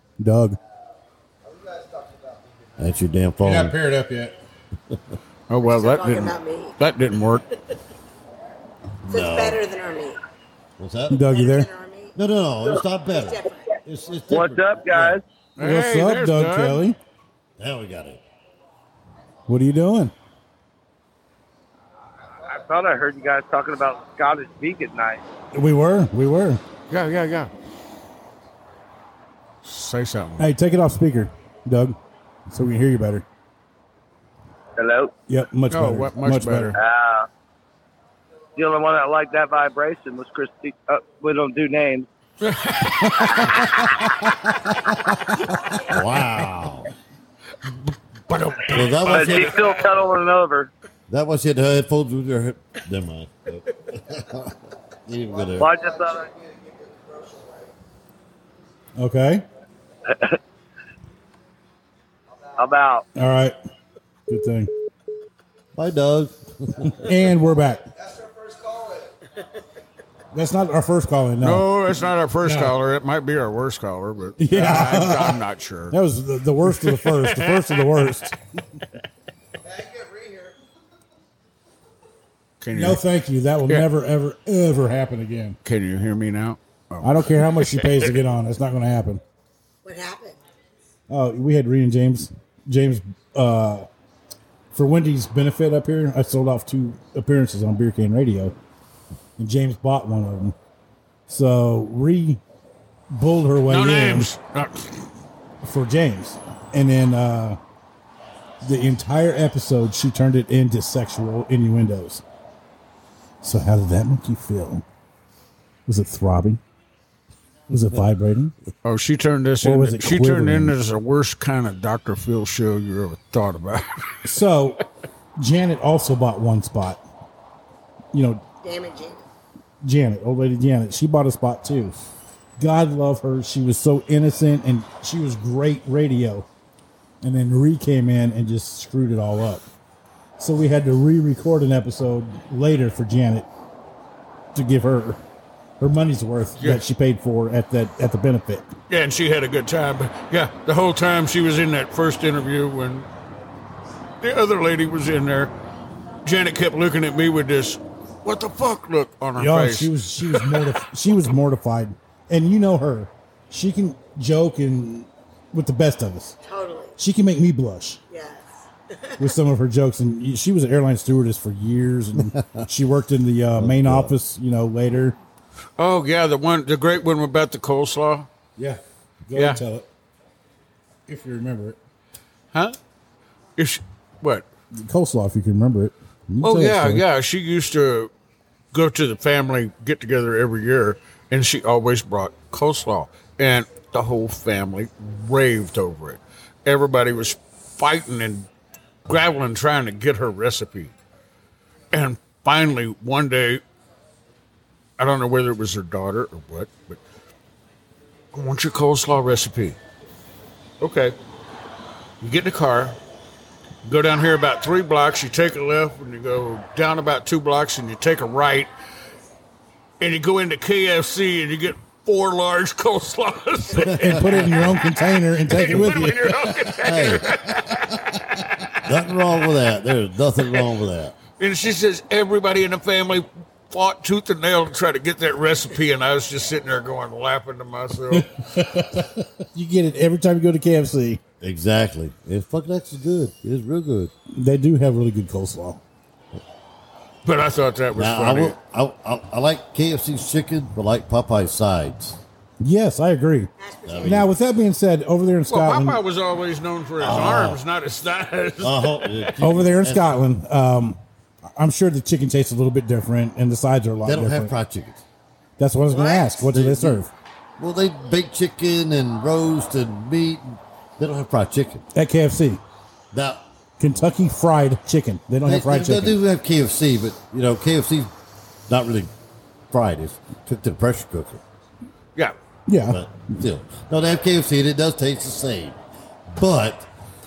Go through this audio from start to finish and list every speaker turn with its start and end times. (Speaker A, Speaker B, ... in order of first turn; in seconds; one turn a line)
Speaker A: 0.2-0.6
Speaker B: 2.8-3.8
Speaker A: 3.4-4.3
Speaker C: 5.5-7.4
Speaker D: 5.7-6.7
Speaker B: 9.0-9.6
Speaker D: 9.1-10.2
Speaker B: 10.8-11.2
Speaker A: 11.1-11.7
Speaker D: 11.2-12.2
Speaker B: 12.2-15.2
Speaker D: 13.1-13.8
Speaker E: 14.3-15.2
Speaker C: 15.6-16.9
Speaker A: 15.6-17.0
Speaker B: 17.6-18.2
Speaker A: 19.5-20.1
Speaker E: 22.4-25.2
Speaker A: 25.5-26.6
Speaker C: 26.9-27.5
Speaker C: 29.6-30.5
Speaker A: 30.4-32.0
Speaker A: 32.5-33.2
Speaker E: 34.8-35.1
Speaker A: 35.3-36.8
Speaker C: 35.7-36.8
Speaker E: 36.7-37.3
Speaker E: 38.5-42.1
Speaker C: 42.4-44.0
Speaker A: 43.0-45.5
Speaker B: 45.8-46.9
Speaker C: 47.6-49.6
Speaker B: 48.7-49.7
Speaker E: 49.0-50.7
Speaker B: 51.1-54.5
Speaker B: 55.0-55.7
Speaker E: 55.5-56.3
Speaker A: 59.0-59.4
Speaker E: 60.1-60.4
Speaker E: 62.6-63.0
Speaker A: 63.1-63.5
Speaker A: 64.3-64.7
Speaker B: 65.7-67.0
Speaker A: 66.9-67.8
Speaker A: 70.3-71.7
Speaker C: 71.4-76.0
Speaker A: 72.4-72.7
Speaker A: 74.4-78.3
Speaker C: 76.7-78.1
Speaker D: 80.1-80.5
Speaker C: 82.6-83.0
Speaker A: 82.7-85.6
Speaker C: 85.6-87.9
Speaker A: 87.0-89.2
Speaker D: 89.8-90.4
Speaker A: 91.1-93.9
Speaker A: 94.7-98.5
Speaker A: 99.4-100.5
Speaker A: 101.3-102.4
Speaker A: 103.1-104.3
Speaker C: 103.7-105.0
Speaker A: 105.6-107.6
Speaker A: 108.6-112.2
Speaker A: 113.4-114.8
Speaker A: 115.9-116.6
Speaker A: 117.7-118.5
Speaker C: 118.8-124.3
Speaker A: 119.6-120.8
Speaker A: 124.2-124.8
Speaker A: 125.4-127.0
Speaker A: 128.1-128.4
Speaker D: 128.6-129.2
Speaker A: 129.8-131.9
Speaker A: 132.6-136.4
Speaker A: 137.2-139.7
Speaker A: 140.4-143.5
Speaker A: 144.5-145.2
Speaker A: 145.8-148.7
Speaker C: 148.9-153.1
Speaker C: 154.2-155.5
Speaker C: 156.2-160.6
Speaker A: 159.3-166.3
Speaker D: 166.5-166.9
Speaker A: 167.0-168.0
Speaker D: 168.1-169.2
Speaker A: 169.2-175.2
Speaker B: 172.4-172.6
Speaker B: 173.6-174.2
Speaker C: 175.8-178.3
Speaker A: 178.6-179.9
Speaker C: 179.3-179.6
Speaker A: 181.1-181.8
Speaker C: 182.5-182.8
Speaker C: 183.6-184.4
Speaker A: 184.7-187.0
Speaker C: 186.4-188.1
Speaker C: 188.7-198.5
Speaker C: 199.1-200.9
Speaker C: 201.9-203.6
Speaker C: 205.0-207.0
Speaker C: 208.3-209.8
Speaker C: 210.8-211.1
Speaker C: 212.2-213.0
Speaker C: 213.8-218.7
Speaker C: 220.0-224.8
Speaker A: 223.7-226.7
Speaker C: 225.5-228.1
Speaker B: 226.8-227.2
Speaker B: 228.8-231.1
Speaker C: 231.4-238.3
Speaker A: 238.1-241.2
Speaker B: 241.4-244.1
Speaker A: 244.3-245.8
Speaker C: 247.2-248.5
Speaker B: 247.9-252.2
Speaker A: 252.6-253.5
Speaker D: 253.6-254.2
Speaker B: 253.8-254.3
Speaker A: 254.0-256.0
Speaker C: 255.5-259.4
Speaker B: 257.0-257.6
Speaker B: 258.6-260.1
Speaker A: 259.4-261.0
Speaker A: 261.6-264.5
Speaker B: 264.0-265.0
Speaker A: 265.6-267.1
Speaker D: 265.9-266.2
Speaker B: 266.4-267.0
Speaker B: 267.6-271.8
Speaker A: 271.9-272.6
Speaker B: 273.1-273.4
Speaker A: 273.8-276.2
Speaker B: 275.4-278.1
Speaker B: 278.7-279.1
Speaker B: 279.7-281.4
Speaker A: 282.7-283.0
Speaker B: 282.8-285.8
Speaker B: 286.3-286.9